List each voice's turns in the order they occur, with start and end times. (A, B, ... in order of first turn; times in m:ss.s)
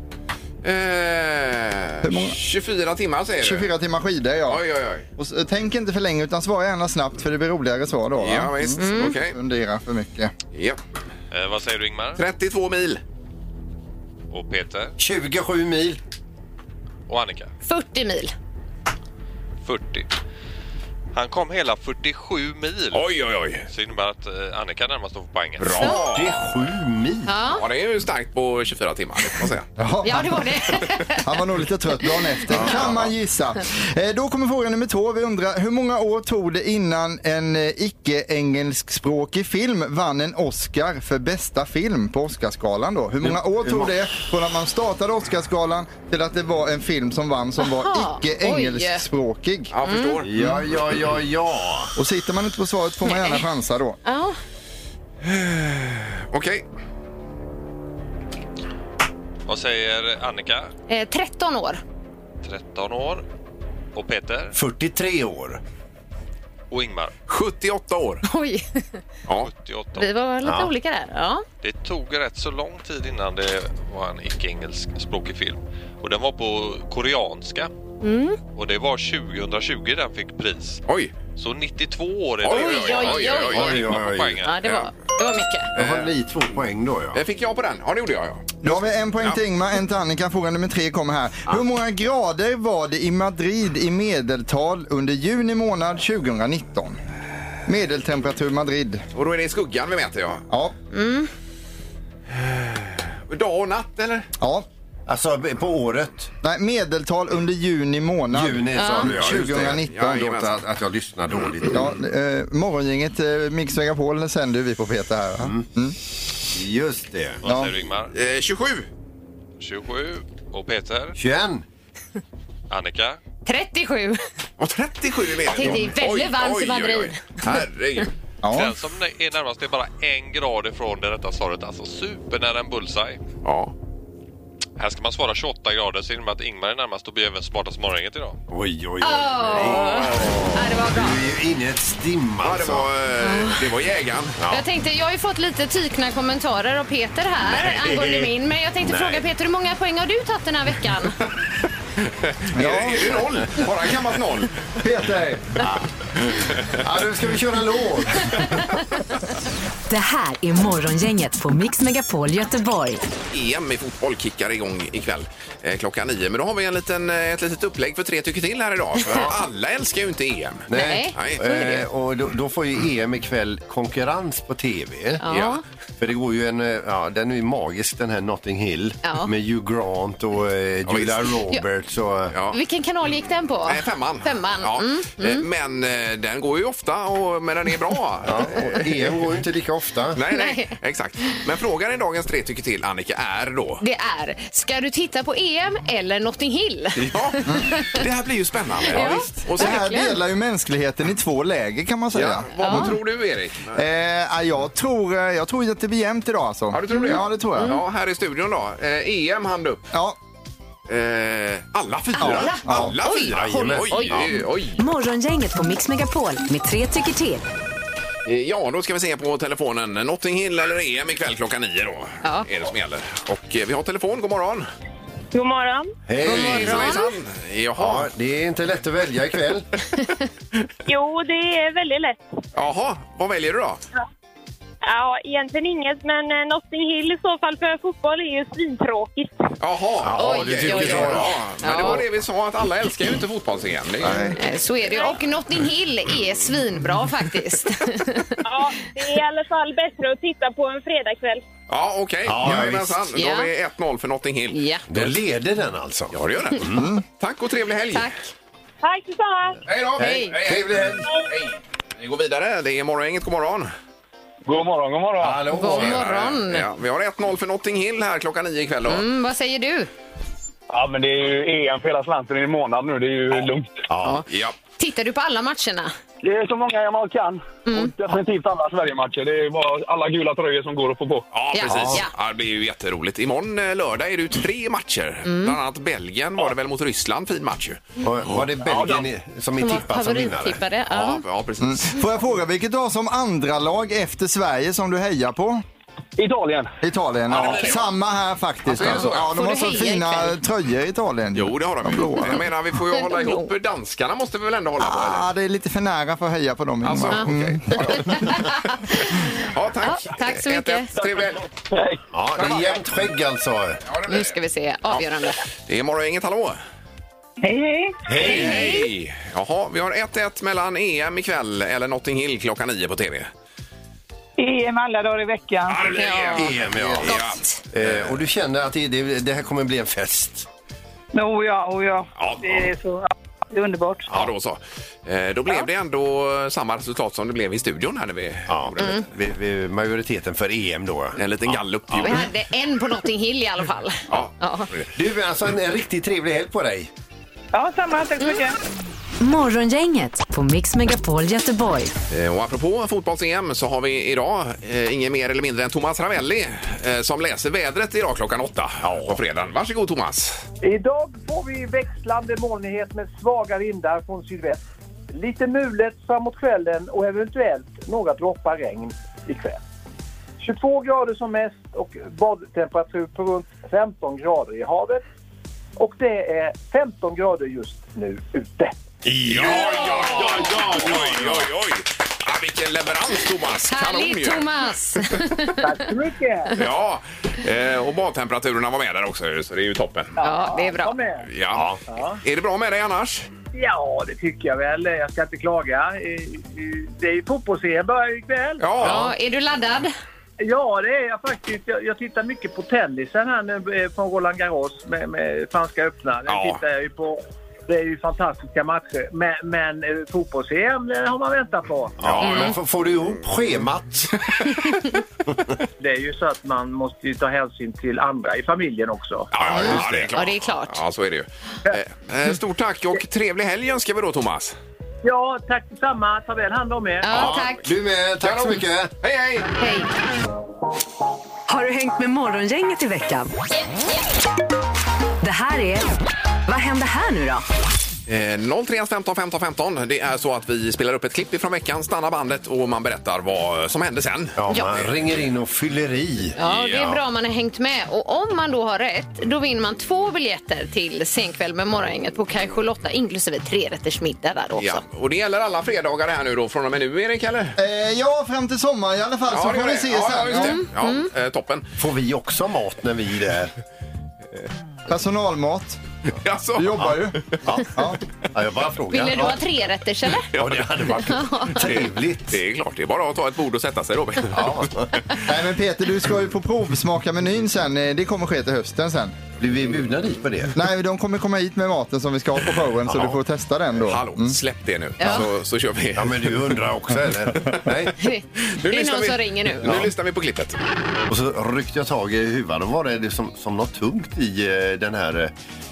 0:00.6-0:03.7 A
0:02.0-0:02.4 B
0:03.4-0:04.6 B
0:04.5-0:05.0 A
0:05.2-0:10.3 B
0:08.2-0:09.3 A
0:08.8-0:09.1 C
0:10.5-0:10.8 A
0:11.3-0:12.2 D
0:12.2-0:13.0 A
0:14.3-0:14.9 D
0:15.0-0:16.0 E
0:17.1-0:17.5 D
0:17.6-0:18.3 C
0:19.6-0:20.1 D
0:21.1-0:23.1 D
0:22.9-0:23.6 A
0:23.7-0:25.9 D
0:25.6-0:26.5 A
0:25.9-0:27.3 E
0:27.2-0:27.6 C
0:27.5-0:29.7 A
0:29.8-0:49.7 B
0:30.0-0:31.2 C
0:32.5-0:33.0 A
0:43.2-0:43.9 E
0:47.6-0:49.0 C
0:49.7-0:50.3 A
0:49.8-0:50.2 C
0:50.2-0:51.9 E
0:50.3-0:50.6 B
0:52.0-0:54.0 B
0:53.0-0:53.4 C
0:54.0-0:54.4 C
0:55.2-0:56.6 A
0:59.5-1:00.7 D
1:00.9-1:01.8 C
1:02.4-1:03.2 D
1:03.9-1:04.5 D
1:04.5-1:05.6 E
1:06.7-1:07.1 D
1:07.3-1:08.2 A
1:08.2-1:09.0 C
1:09.4-1:10.1 D
1:09.9-1:11.4 C
1:10.4-1:10.7 E
1:11.6-1:17.7 D
1:18.0-1:18.4 C
1:18.5-1:24.7 D
1:20.9-1:21.1 A
1:22.4-1:23.9 A
1:22.5-1:23.8 C
1:23.5-1:24.4 E
1:24.4-1:25.7 C
1:25.7-1:27.2 E
1:25.8-1:26.1 A
1:27.1-1:29.4 A
1:28.6-1:37.0 B
1:37.6-1:39.0 B
1:39.1-1:40.4 A
1:40.9-1:41.3 C
1:42.3-1:44.3 A
1:44.4-1:44.6 B
1:45.1-1:46.3 E
1:46.4-1:50.3 B
1:48.3-1:52.0 E
1:48.8-1:49.1 C
1:49.1-1:50.6 A
1:51.7-1:56.0 B
1:56.5-1:57.4 E
1:57.4-1:58.1 D
1:57.4-1:57.7 B
1:58.1-1:58.9 A
1:59.6-2:01.2 D
2:01.2-2:01.6 E
2:02.7-2:03.2 D
2:03.4-2:04.2 C
2:04.6-2:08.1 A
2:05.5-2:07.4 C
2:08.4-2:08.7 B
2:08.5-2:13.2 D
2:13.4-2:13.7 A
2:14.8-2:18.4 D
2:18.5-2:22.9 E
2:19.0-2:21.2 C
2:19.5-2:20.3 A
2:22.4-2:24.4 A
2:23.2-2:23.6 C
2:24.4-2:24.6 E
2:24.5-2:31.2 C
2:27.4-2:28.3 E
2:28.8-2:29.2 E
2:32.3-2:34.5 A
2:32.5-2:33.2 B
2:34.8-2:35.6 B
2:36.6-2:38.6 E
2:39.9-2:43.0 F
2:43.3-2:51.4 A
2:50.7-2:55.2 E
2:50.7-2:51.8 C
2:55.2-2:55.6 C
2:55.3-2:55.6 A
2:56.0-3:02.3 E
2:59.0-2:59.3 C
3:00.8-3:01.3 A
3:02.3-3:02.6 A
3:02.5-3:05.4 C
3:03.7-3:09.1 A
3:08.2-3:10.2 E
3:10.1-3:13.8 A
3:10.3-3:10.7 C
3:13.8-3:17.9 C
3:17.0-3:19.9 A
3:18.9-3:20.1 C
3:19.5-3:23.0 B
3:22.1-3:23.8 A
3:22.6-3:22.9 C
3:23.7-3:27.8 B
3:26.7-3:29.8 A
3:26.9-3:27.8 C
3:29.9-3:30.2 B
3:30.9-3:34.8 A
3:32.2-3:34.3 C
3:32.2-3:33.0 B
3:33.3-3:34.4 E
3:34.8-3:37.4 F
3:38.2-3:44.7 A
3:45.3-3:45.9 G
3:46.1-3:46.9 E
3:46.2-3:48.1 A
3:46.2-3:47.1 C
3:47.8-3:49.7 E
3:50.9-3:52.2 G
3:52.5-3:53.8 A
3:54.8-3:59.3 G
3:59.6-4:04.4 A
4:00.0-4:01.9 E
4:00.2-4:02.0 C
4:04.0-4:04.4 E
4:04.4-4:08.4 C
4:04.9-4:05.2 G
4:08.4-4:11.4 G
4:11.7-4:15.2 A
4:12.2-4:13.0 E
4:13.1-4:13.5 C
4:14.5-4:14.8 C
4:14.9-4:16.9 E
4:16.1-4:18.1 A
4:16.8-4:17.0 B
4:18.8-4:19.6 G
4:19.6-4:23.7 A
4:20.0-4:21.1 E
4:20.0-4:20.3 C
4:24.4-4:25.5 H
4:25.2-4:26.2 E
4:25.5-4:26.7 C
4:25.8-4:29.0 A
4:28.9-4:29.9 C
4:30.7-4:33.8 H
4:33.9-4:34.2 E
4:34.0-4:35.9 C
4:34.3-4:34.5 A
4:36.2-4:41.2 H
4:37.6-4:37.9 C
4:41.3-4:48.4 A
4:41.5-4:42.1 C
4:41.7-4:42.0 E
4:45.2-4:45.6 C
4:48.0-4:50.6 E
4:48.7-4:49.0 H
4:49.6-4:51.2 C
4:50.9-4:52.0 A
4:51.6-4:55.6 B
4:56.2-4:56.7 H
4:56.8-5:02.4 B
4:57.3-4:57.8 A
4:58.7-4:59.3 A
4:59.0-5:00.4 C
5:01.3-5:05.3 A
5:02.9-5:03.5 C
5:04.8-5:08.3 B
5:06.8-5:11.4 A
5:08.0-5:09.2 C
5:09.8-5:10.9 C
5:11.0-5:12.0 H
5:12.1-5:13.8 E
5:12.4-5:12.8 A
5:13.8-5:14.4 A
5:14.1-5:15.4 C
5:15.6-5:16.6 A
5:17.4-5:18.0 I
5:18.1-5:18.8 E
5:18.1-5:23.3 A
5:18.2-5:18.9 C
5:24.4-5:26.0 I
5:25.7-5:28.2 A
5:25.9-5:26.5 C
5:26.3-5:27.2 E
5:27.0-5:27.6 C
5:27.7-5:30.5 E
5:31.1-5:34.1 I
5:32.2-5:32.7 A
5:34.1-5:39.0 A
5:38.5-5:42.3 E
5:41.2-5:42.3 A
5:42.0-5:44.7 C
5:44.1-5:44.9 A
5:44.9-5:46.9 E
5:47.5-5:48.6 I
5:49.2-5:51.9 F
5:52.1-6:00.4 A
5:58.8-5:59.2 E
6:00.6-6:09.6 J
6:10.4-6:15.0 J
6:15.8-6:18.7 J
6:19.0-6:19.9 E
6:19.3-6:24.5 A
6:23.7-6:25.6 C
6:25.6-6:26.6 J
6:26.6-6:30.1 A
6:30.2-6:31.3 J
6:30.2-6:30.9 C
6:31.3-6:31.7 A
6:31.5-6:31.8 E
6:31.9-6:32.2 J
6:32.2-6:33.3 A
6:33.5-6:38.7 J
6:38.6-6:39.1 A
6:38.8-6:39.9 C
6:40.4-6:52.0 J
6:46.2-6:46.6 A
6:52.0-6:54.2 E
6:52.0-6:52.6 A
6:52.2-6:52.5 C
6:55.8-6:59.3 J
6:59.3-7:04.6 A
6:59.4-7:00.1 E
6:59.5-7:00.8 C
7:05.0-7:07.1 J
7:07.0-7:07.6 C
7:07.1-7:08.9 E
7:08.2-7:09.5 A
7:09.6-7:09.9 C
7:11.5-7:13.3 F
7:15.2-7:15.9 F
7:16.5-7:17.4 F
7:18.1-7:24.9 A
7:24.4-7:26.4 E
7:26.4-7:34.8 C
7:26.4-7:27.0 A
7:34.6-7:37.6 A
7:37.6-7:40.6 B
7:39.3-7:41.7 A
7:40.3-7:41.1 C
7:41.8-7:43.5 E
7:44.9-7:45.8 B
7:46.2-7:47.4 A
7:46.5-7:48.0 B
7:48.3-7:49.4 E
7:48.9-7:50.3 C
7:50.3-7:51.0 A
7:50.3-7:52.4 E
7:50.9-7:51.7 C
7:51.6-7:54.7 A
7:54.3-7:55.1 E
7:55.2-7:59.2 B
7:59.4-8:00.6 E
8:00.5-8:04.4 B
8:02.9-8:03.2 E
8:03.9-8:06.5 A
8:05.0-8:05.3 C
8:06.0-8:07.9 E
8:08.0-8:09.7 C
8:08.5-8:10.6 A
8:09.6-8:09.9 E
8:11.1-8:15.3 E